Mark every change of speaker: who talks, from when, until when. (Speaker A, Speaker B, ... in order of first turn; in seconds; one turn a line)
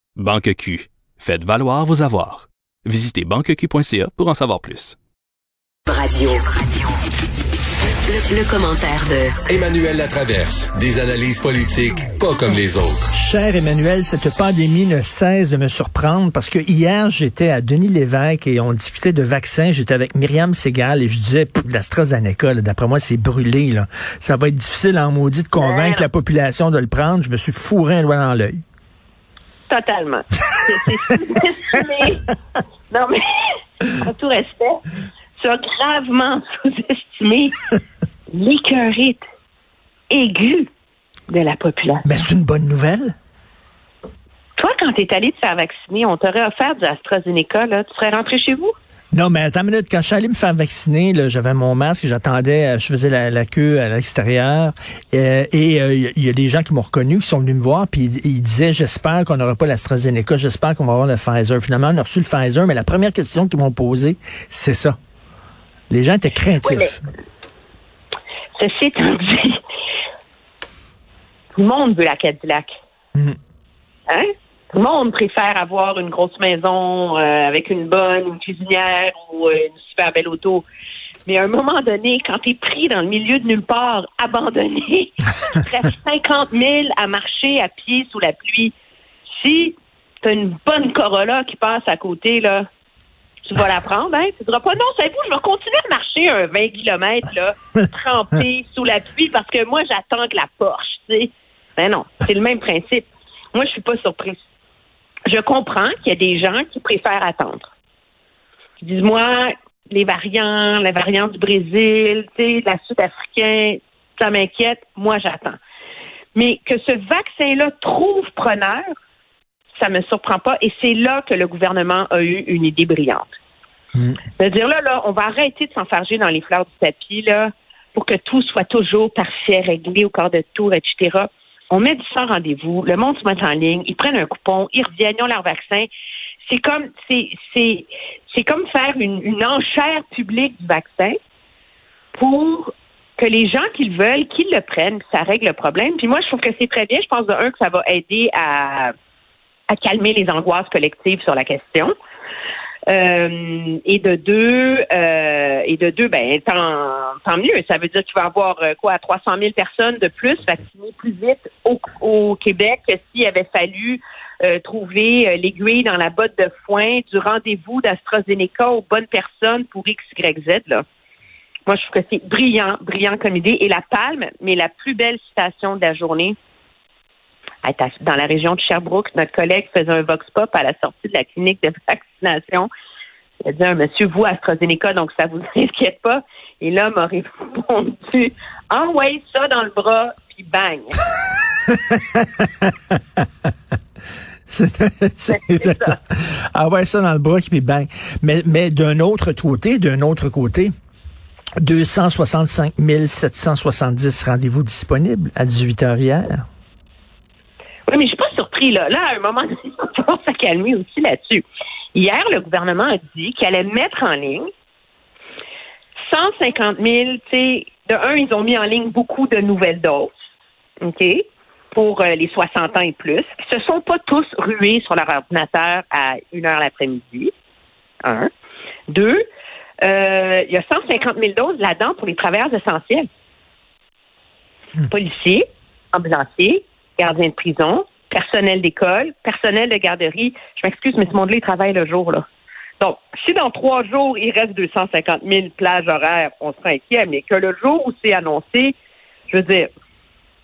Speaker A: 0.2-5.0
Speaker B: 5.9-6.9
Speaker B: 8.0-9.6
Speaker C: 9.5-13.1
Speaker D: 13.1-28.6
Speaker E: 25.6-26.1
Speaker E: 29.7-32.3
Speaker E: 32.9-34.8
Speaker E: 35.4-37.6
Speaker E: 38.3-39.2
Speaker E: 40.1-40.7
Speaker E: 41.3-42.1
Speaker D: 42.0-43.1
Speaker E: 44.6-48.7
Speaker D: 49.1-65.0
Speaker D: 65.9-67.0
Speaker E: 66.6-66.9
Speaker E: 68.6-69.6
Speaker E: 71.5-72.7
Speaker E: 74.1-80.7
Speaker E: 81.3-88.7
Speaker E: 89.4-92.7
Speaker E: 93.5-104.4
Speaker E: 105.3-107.7
Speaker E: 108.8-115.6
Speaker E: 116.3-118.9
Speaker E: 119.8-123.3
Speaker E: 124.4-135.9
Speaker E: 136.4-141.2
Speaker E: 142.2-148.9
Speaker E: 149.7-151.9
Speaker E: 152.9-170.8
Speaker E: 171.7-176.3
Speaker E: 177.6-182.7
Speaker E: 183.5-191.0
Speaker D: 191.7-193.3
Speaker D: 194.5-200.7
Speaker E: 195.3-195.9
Speaker D: 201.6-206.4
Speaker E: 207.9-214.5
Speaker E: 216.1-220.1
Speaker E: 220.8-227.3
Speaker E: 228.9-229.2
Speaker E: 229.8-233.1
Speaker E: 234.8-242.2
Speaker E: 242.8-248.8
Speaker E: 249.3-249.7